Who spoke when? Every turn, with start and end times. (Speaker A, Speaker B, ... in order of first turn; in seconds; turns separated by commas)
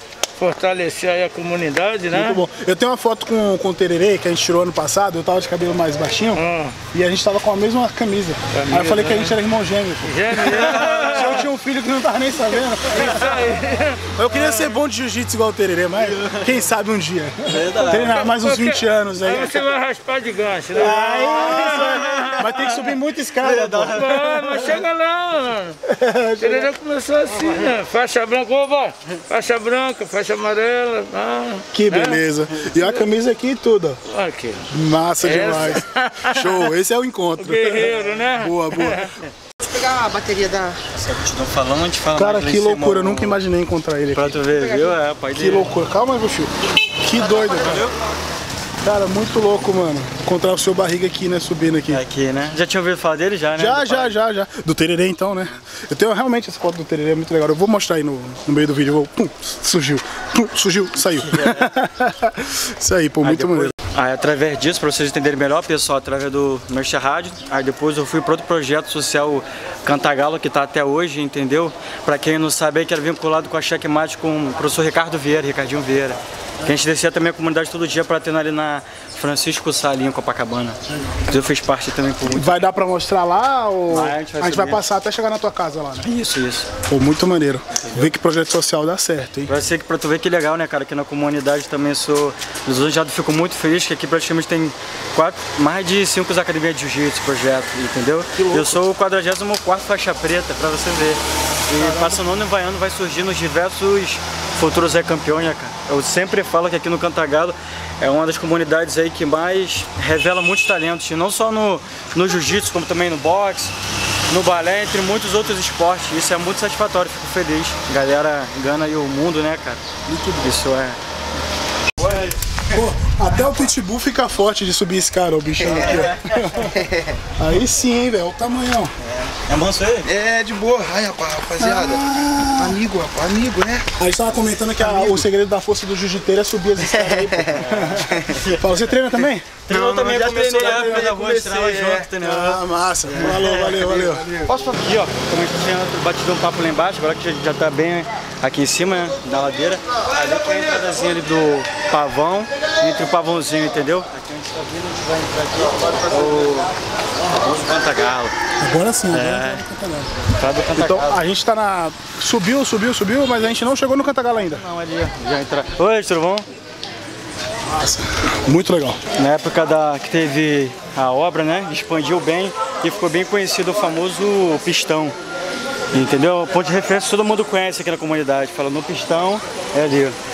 Speaker A: 0.4-2.4, Speaker B: 2.1-13.5, Speaker A: 6.3-6.8, Speaker A: 8.5-9.4, Speaker A: 10.0-11.4, Speaker C: 10.4-11.4, Speaker A: 12.9-14.7, Speaker B: 14.1-19.6, Speaker C: 16.0-16.6, Speaker C: 17.5-18.3, Speaker A: 17.8-22.7, Speaker B: 20.7-24.7, Speaker C: 20.8-22.7, Speaker C: 23.4-24.7, Speaker A: 23.9-25.8, Speaker B: 25.8-26.7, Speaker A: 26.4-33.0, Speaker B: 31.7-34.0, Speaker A: 34.1-34.7, Speaker B: 34.7-39.1, Speaker A: 35.2-36.6, Speaker A: 37.4-39.1, Speaker D: 39.6-40.8, Speaker C: 40.9-43.4, Speaker B: 42.1-44.4, Speaker C: 44.1-45.7, Speaker D: 44.5-45.0, Speaker B: 45.3-47.9, Speaker D: 47.1-47.9, Speaker C: 47.5-48.0, Speaker B: 48.8-52.0, Speaker C: 51.9-54.1, Speaker B: 53.5-63.7, Speaker C: 61.1-61.7, Speaker C: 63.2-82.7, Speaker B: 80.9-81.5, Speaker B: 82.2-86.1, Speaker C: 83.9-84.8, Speaker C: 86.0-86.7, Speaker B: 86.8-89.5, Speaker C: 87.8-88.1, Speaker C: 89.5-113.7, Speaker B: 98.3-98.8, Speaker B: 101.8-102.2, Speaker C: 114.3-119.8, Speaker B: 120.1-120.5, Speaker C: 120.4-121.0, Speaker C: 122.0-122.8, Speaker B: 122.7-126.8, Speaker C: 125.6-126.8, Speaker D: 126.8-127.0, Speaker B: 127.4-128.9, Speaker C: 129.1-130.1, Speaker E: 130.0-133.9, Speaker B: 131.6-132.8, Speaker B: 133.9-144.3, Speaker E: 134.8-135.3, Speaker C: 137.5-158.3, Speaker D: 144.5-144.8, Speaker D: 150.3-150.9, Speaker B: 158.6-164.6, Speaker C: 159.1-159.6, Speaker C: 160.3-161.2, Speaker C: 164.5-166.4, Speaker B: 167.7-169.0, Speaker C: 169.2-175.2, Speaker C: 175.9-180.2